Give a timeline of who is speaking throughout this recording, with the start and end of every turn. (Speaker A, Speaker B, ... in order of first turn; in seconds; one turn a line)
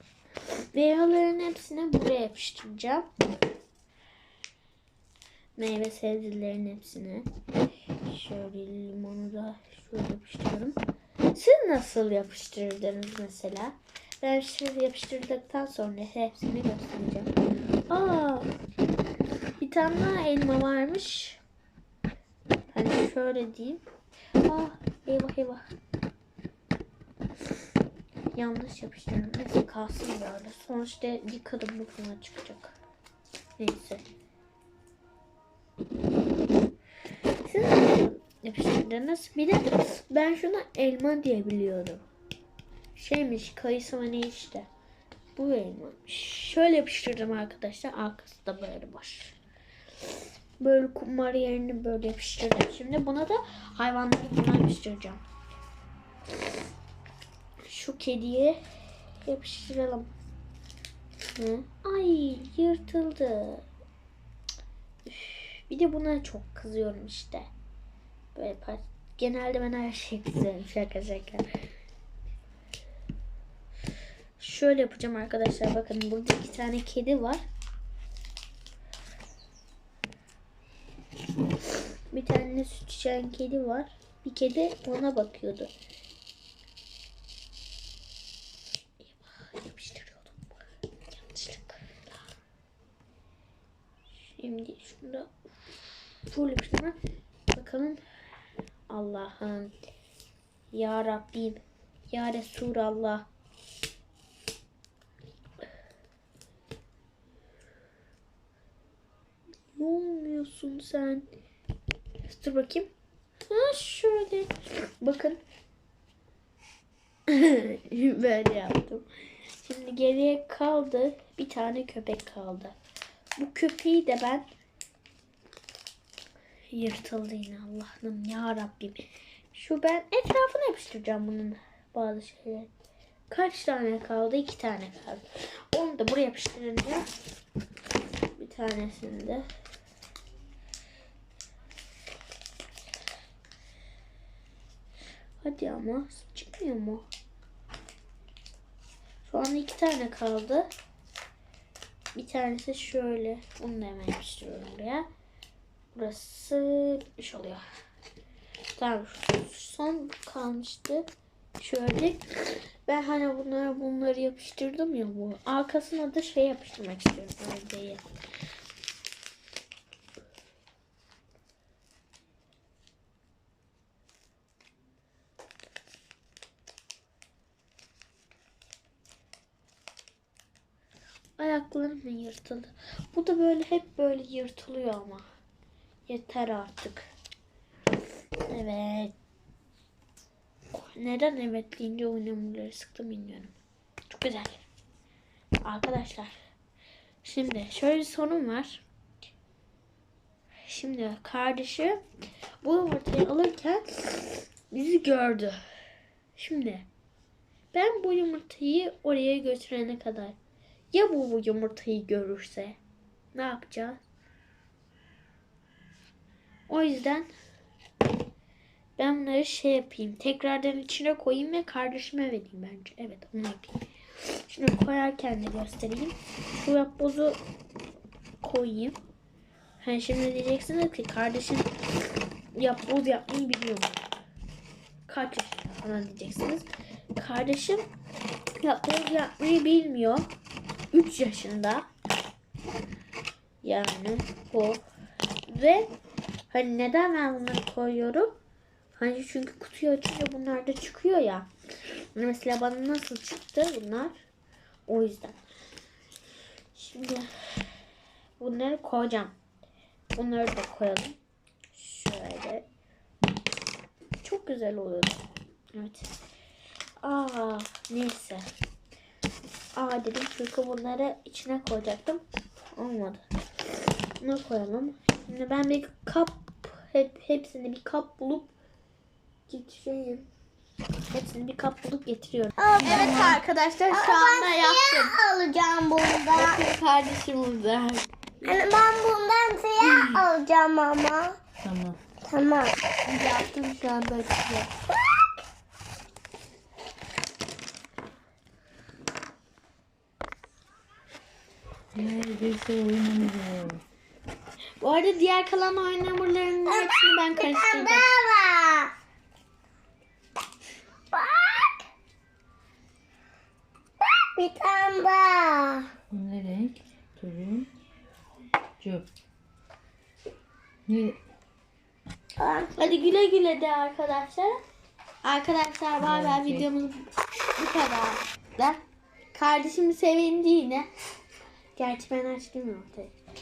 Speaker A: 0.7-3.1
Speaker A: 5.5-7.3
Speaker A: 8.1-10.8
Speaker A: 11.3-17.3
Speaker A: 17.9-18.5
Speaker A: 19.6-21.4
Speaker A: 22.7-23.8
Speaker A: 24.4-25.7
Speaker A: 28.3-32.8
Speaker A: 33.6-34.0
Speaker A: 37.4-42.0
Speaker A: 42.9-44.7
Speaker A: 45.3-49.4
Speaker A: 50.6-55.2
Speaker A: 57.6-58.6
Speaker A: 59.2-60.1
Speaker A: 61.3-63.6
Speaker A: 65.0-67.5
Speaker A: 68.3-71.5
Speaker A: 74.4-77.4
Speaker A: 82.1-85.7
Speaker A: 89.0-92.0
Speaker A: 94.3-97.0
Speaker A: 97.5-98.0
Speaker A: 98.9-99.7
Speaker A: 100.7-103.3
Speaker A: 109.7-111.3
Speaker A: 112.2-112.9
Speaker A: 113.5-115.4
Speaker A: 117.3-119.1
Speaker A: 119.6-122.8
Speaker A: 123.4-124.5
Speaker A: 126.7-132.7
Speaker A: 133.3-137.1
Speaker A: 138.3-139.4
Speaker A: 145.4-147.1
Speaker A: 149.2-150.7
Speaker A: 152.1-155.1
Speaker A: 155.9-157.6
Speaker A: 158.7-162.2
Speaker A: 162.8-168.1
Speaker A: 181.4-185.2
Speaker A: 186.1-187.1
Speaker A: 188.5-189.1
Speaker A: 190.7-193.5
Speaker A: 194.1-194.6
Speaker A: 195.6-196.3
Speaker A: 197.2-198.8
Speaker A: 200.7-202.0
Speaker A: 202.6-205.6
Speaker A: 206.3-206.9
Speaker A: 207.7-210.4
Speaker A: 210.9-212.8
Speaker A: 213.3-214.0
Speaker A: 216.7-217.3
Speaker A: 219.0-227.4
Speaker A: 228.4-229.0
Speaker A: 229.8-231.7
Speaker A: 232.5-234.1
Speaker A: 235.1-237.9
Speaker A: 238.6-240.3
Speaker A: 240.9-241.8
Speaker A: 243.6-244.8
Speaker A: 245.5-245.9
Speaker A: 246.5-248.3
Speaker A: 248.9-251.5
Speaker A: 252.1-254.2
Speaker A: 254.9-255.4
Speaker A: 256.7-257.7
Speaker A: 258.4-259.3
Speaker A: 260.1-261.2
Speaker A: 261.7-262.6
Speaker A: 264.2-266.1
Speaker A: 267.0-268.5
Speaker A: 269.7-272.2
Speaker A: 272.7-273.2
Speaker A: 274.2-278.5
Speaker A: 279.5-280.3
Speaker A: 281.1-285.2
Speaker B: 282.6-286.6
Speaker C: 282.8-283.3
Speaker A: 286.3-288.1
Speaker B: 288.4-291.4
Speaker A: 289.8-290.2
Speaker C: 291.6-292.0
Speaker B: 292.2-292.8
Speaker A: 293.1-294.7
Speaker C: 301.9-303.8
Speaker A: 304.8-308.1
Speaker B: 306.7-308.9
Speaker B: 311.1-311.8
Speaker B: 314.0-315.9
Speaker C: 316.1-317.7
Speaker C: 318.8-319.1
Speaker C: 320.9-321.2
Speaker B: 322.4-322.7
Speaker A: 322.7-324.6
Speaker A: 325.2-328.8
Speaker C: 326.0-326.6
Speaker A: 329.3-330.9
Speaker A: 331.8-333.1